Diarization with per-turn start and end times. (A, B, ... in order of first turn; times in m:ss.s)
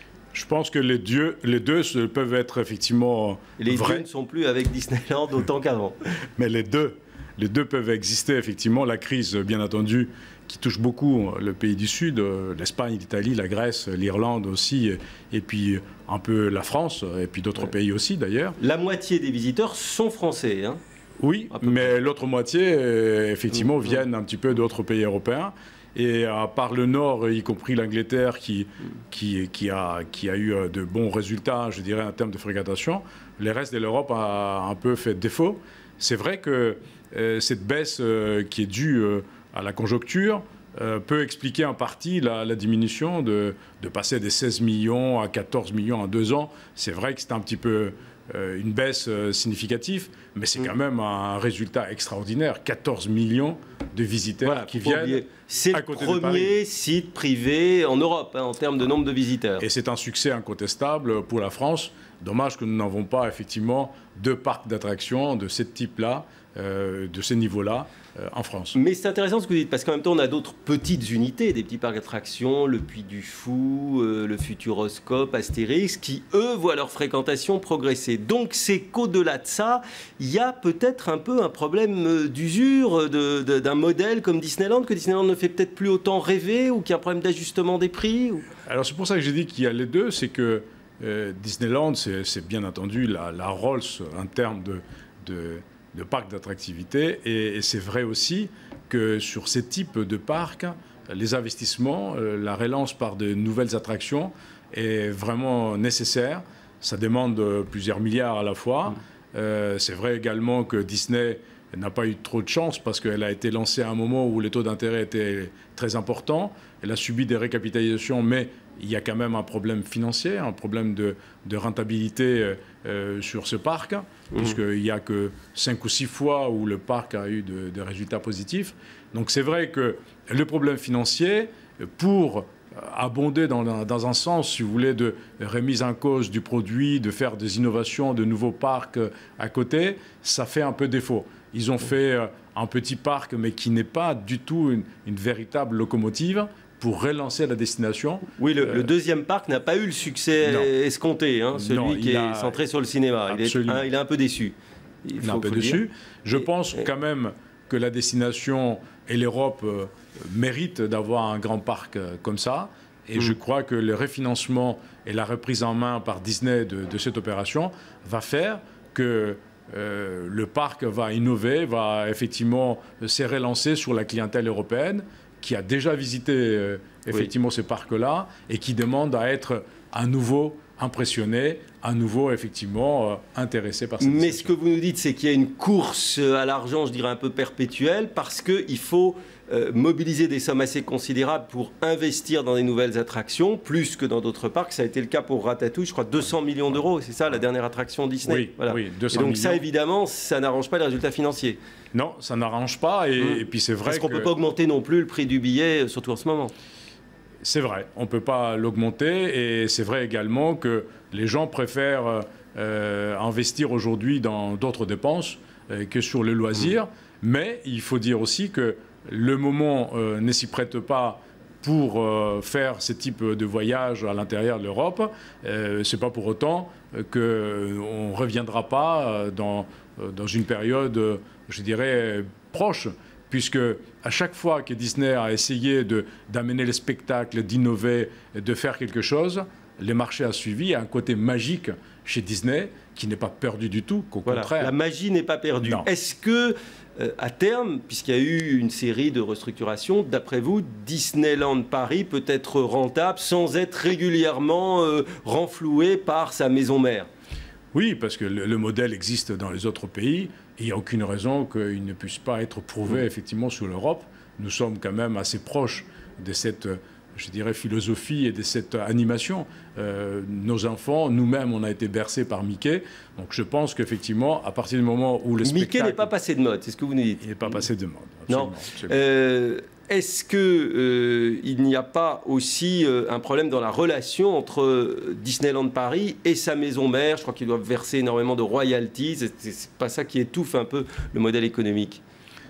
0:00.3-0:04.0 A
0:03.6-0:06.0 B
0:06.4-0:18.6 A
0:18.6-0:20.8 B
0:21.2-0:56.5 A
0:21.5-0:21.9 B
0:54.4-0:59.6 B
0:59.6-1:08.8 A
1:08.7-1:28.5 B
1:28.6-2:28.8 A
2:04.3-2:04.6 B
2:28.4-2:35.8 B
2:30.4-2:30.7 A
2:31.5-2:32.6 A
2:33.3-2:33.8 A
2:35.2-3:04.5 A
3:04.0-3:21.6 B
3:18.2-3:19.6 A
3:21.9-3:24.3 A
3:23.2-3:26.5 B
3:27.4-4:04.7 A
4:04.2-4:17.1 B
4:05.6-4:05.9 A
4:17.7-4:36.1 A
4:35.4-4:37.6 B
4:37.2-4:39.0 A
4:38.3-4:52.0 B